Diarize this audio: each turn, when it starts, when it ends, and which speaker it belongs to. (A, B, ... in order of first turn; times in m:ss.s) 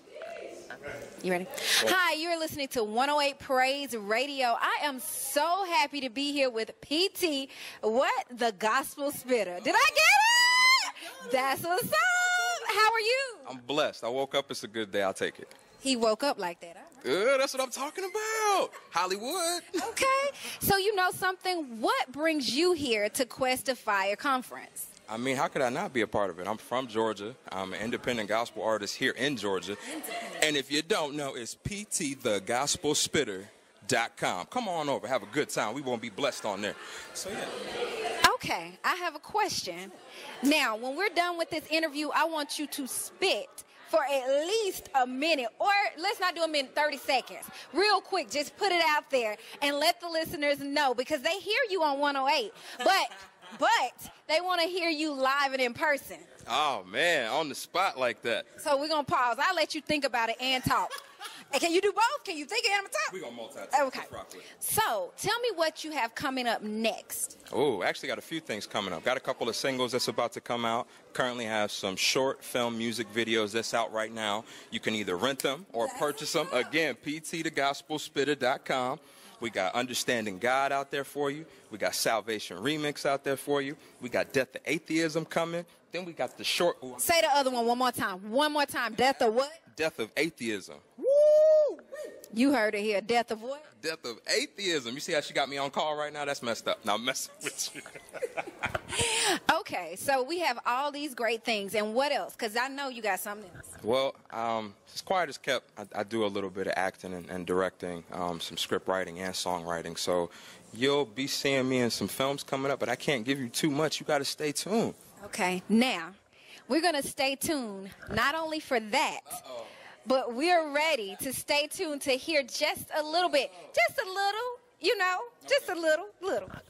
0:01.2-0:13.5 A
0:13.5-0:15.5 B
0:15.8-0:16.9 A
0:17.0-0:19.9 B
0:19.8-0:24.9 A
0:25.1-0:29.8 B
0:30.4-0:37.5 B
0:38.2-0:56.3 A
0:56.5-0:58.5 B
0:58.6-1:01.0 A
1:01.5-1:03.2 A
1:03.1-1:04.4 B
1:03.7-1:07.4 A
1:07.5-1:27.0 B
1:27.0-1:29.6 A
1:29.7-1:30.8 B
1:31.1-1:31.7 A
1:32.3-1:33.6 A
1:33.8-1:37.8 B
1:38.9-1:43.6 A
1:43.8-1:55.0 B
1:55.2-1:56.2 A
1:56.7-1:59.4 A
1:59.3-1:59.7 B
2:00.1-2:06.6 A